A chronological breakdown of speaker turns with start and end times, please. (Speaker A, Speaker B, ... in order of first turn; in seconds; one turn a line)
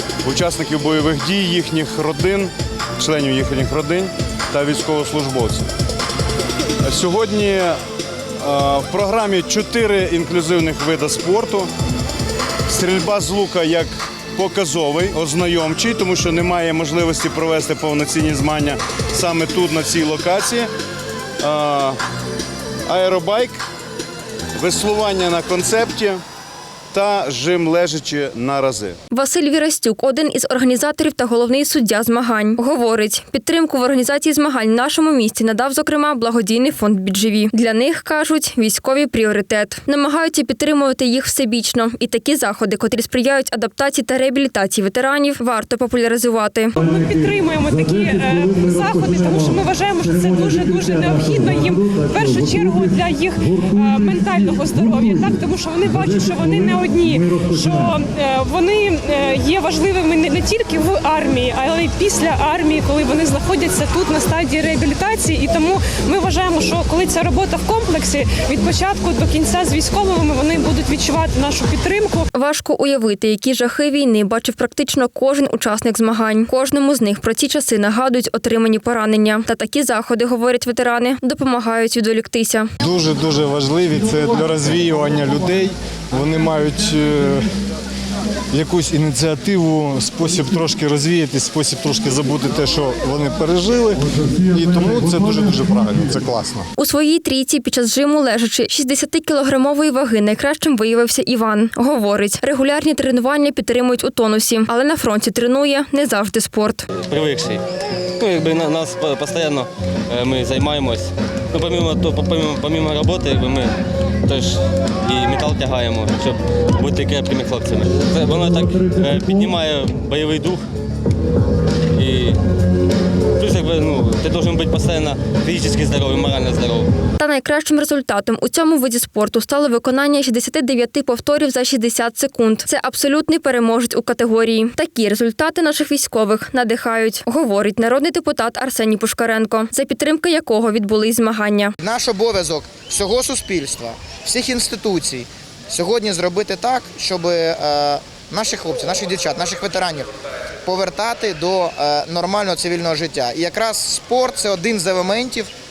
Speaker A: 0.2-5.7
Speaker A: 6.8-7.8
Speaker A: 8.4-11.7
Speaker A: 12.7-20.7
Speaker A: 21.4-22.0
Speaker A: 22.9-23.6
Speaker A: 24.6-26.2
Speaker A: 26.9-29.0
Speaker B: 29.1-46.8
Speaker C: 46.8-72.3
Speaker B: 72.3-82.7
Speaker D: 82.8-87.5
Speaker D: 88.5-96.7
Speaker B: 96.8-106.9
Speaker E: 107.0-107.6
Speaker E: 108.2-120.6
Speaker E: 121.9-122.4
Speaker E: 123.4-126.9
Speaker B: 127.2-141.7
Speaker F: 141.8-150.1
Speaker F: 150.6-155.5